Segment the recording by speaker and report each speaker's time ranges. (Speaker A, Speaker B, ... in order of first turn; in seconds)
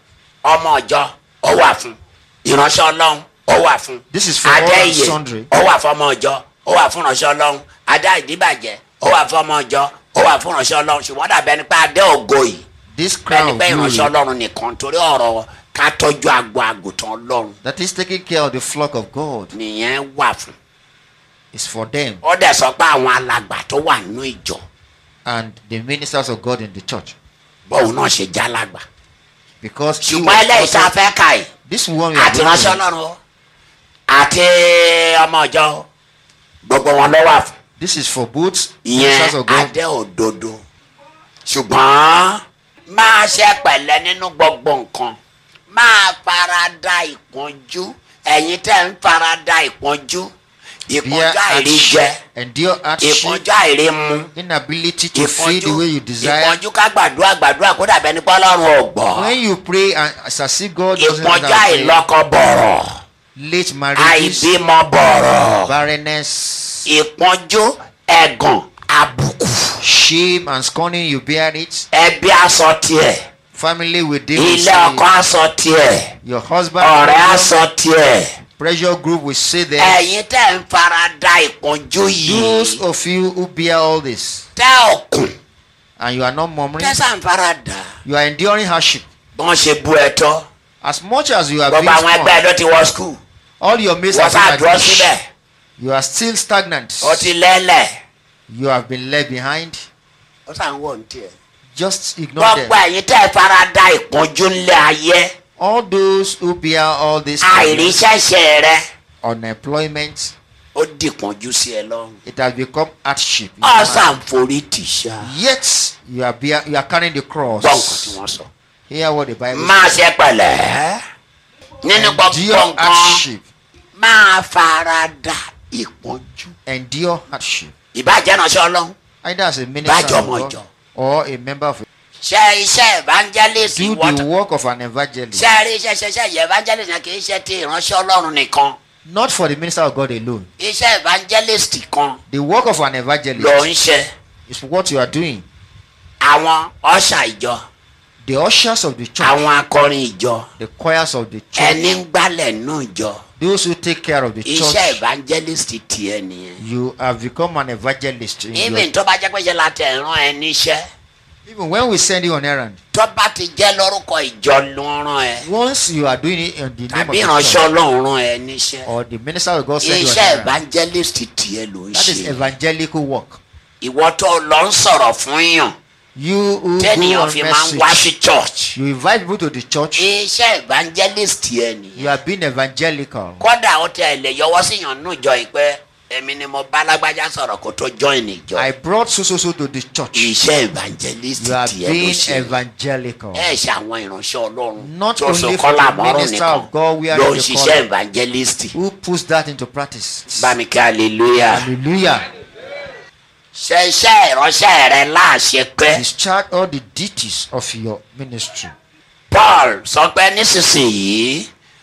Speaker A: 0.4-12.6, 13.3-17.6, 19.5-20.5, 22.2-24.6, 27.7-28.8, 30.0-31.5, 32.1-33.2, 34.1-35.9, 36.6-37.5, 38.8-40.6, 41.5-45.2, 45.7-50.3, 50.9-52.1, 53.0-54.3, 55.1-59.3, 61.0-63.0, 64.0-65.7, 66.8-69.8, 71.9-73.2, 74.3-76.1, 76.8-78.3, 79.8-82.8, 84.5-85.3, 86.8-87.9, 89.3-90.4, 91.7-93.2, 94.1-95.2, 97.0-97.9, 100.5-101.3, 102.4-105.3, 107.4-108.8, 110.7-112.2, 113.6-115.3, 117.5-118.5, 119.5-121.0, 121.8-123.2, 124.0-126.5, 127.9-128.9, 129.8-130.6, 132.2-134.2, 135.3-138.8, 140.6-142.2, 143.3-144.1, 146.2-147.6, 149.2-150.4, 151.6-153.2, 154.4-156.6, 158.5-160.8, 162.9-165.5, 166.9-168.9, 169.8-172.5, 173.8-175.7, 176.8-178.8, 180.0-182.2, 183.4-188.7, 190.1-192.6, 193.3-198.7, 200.4-201.7, 203.5-206.0, 209.3-211.5
Speaker B: 4.1-5.5, 12.9-14.1, 17.6-19.5, 21.5-22.2, 25.2-27.1, 29.6-30.9, 31.7-32.8, 37.8-39.7, 51.0-53.4, 54.3-56.6, 59.1-62.0, 63.4-64.5, 65.6-66.9, 69.8-71.9, 73.5-75.1, 76.2-77.5, 78.6-80.0, 82.2-84.4, 86.0-87.0, 88.0-89.0, 90.8-92.4, 93.6-95.1, 95.8-97.3, 98.5-99.9, 101.8-102.8, 105.6-108.0, 109.2-110.3, 112.2-114.2, 115.2-118.2, 118.9-119.9, 121.9-123.4, 126.7-127.7, 129.2-131.8, 133.7-135.5, 139.0-140.5, 142.3-143.7, 144.5-145.4, 148.2-149.4, 150.6-151.9, 153.4-155.0, 156.6-158.9, 161.4-162.8, 165.4-167.7, 168.8-170.6, 171.9-173.4, 176.2-178.1, 178.7-180.1, 182.0-183.4, 188.5-190.3, 191.4-193.5, 194.8-197.9, 198.7-200.6, 201.4-202.2, 205.9-208.7